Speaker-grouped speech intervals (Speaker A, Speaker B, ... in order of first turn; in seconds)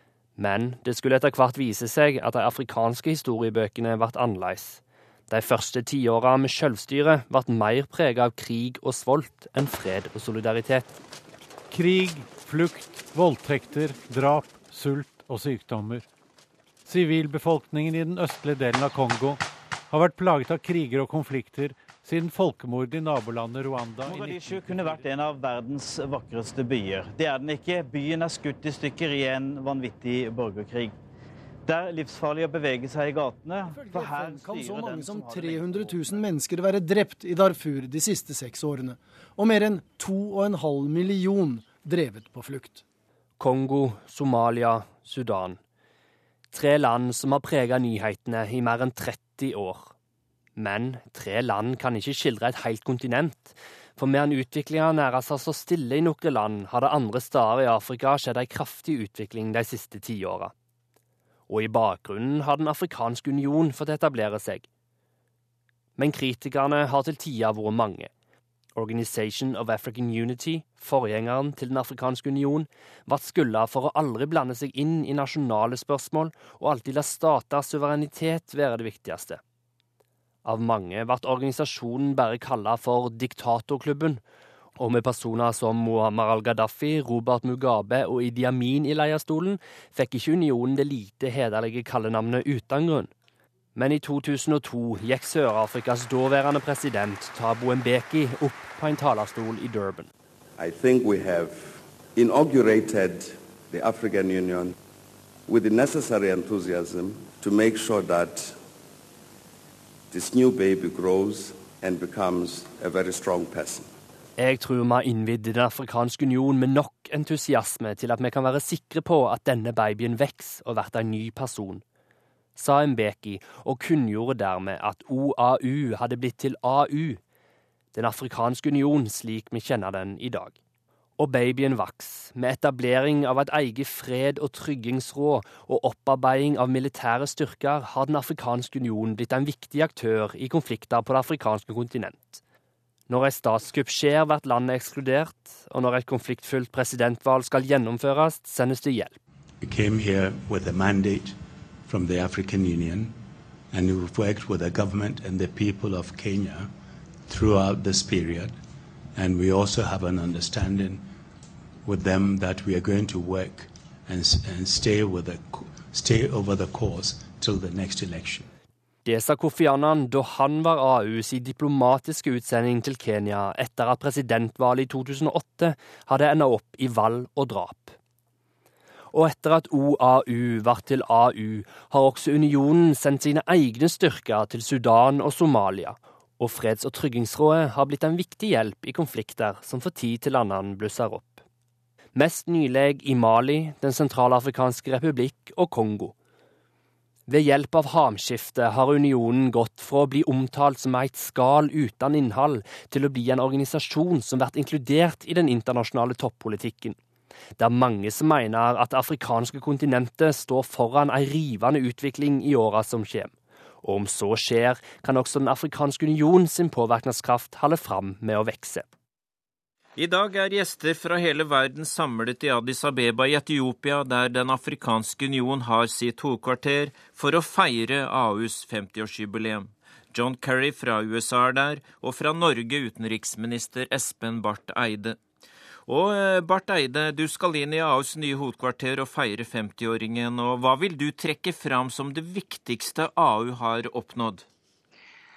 Speaker A: 0.4-11.0, 43.4-45.6, 46.5-49.9, 50.6-60.5, 61.5-64.7, 66.0-68.1, 68.8-79.4, 80.5-84.2, 84.8-93.1, 93.8-100.1, 114.4-121.8, 122.6-127.2, 127.9-130.6, 131.2-142.4, 143.1-149.2, 169.1-177.9, 179.1-191.4, 192.2-196.1, 197.3-207.0, 207.6-218.9
Speaker B: 11.7-16.1, 16.9-25.1
Speaker C: 24.1-30.9, 31.7-36.2
Speaker D: 33.7-42.8
Speaker E: 100.6-104.7, 105.5-108.6, 110.1-113.9
Speaker F: 149.6-153.2, 153.7-156.7, 157.3-158.6, 159.2-161.1, 161.8-168.5
Speaker G: 220.0-235.2, 235.9-244.4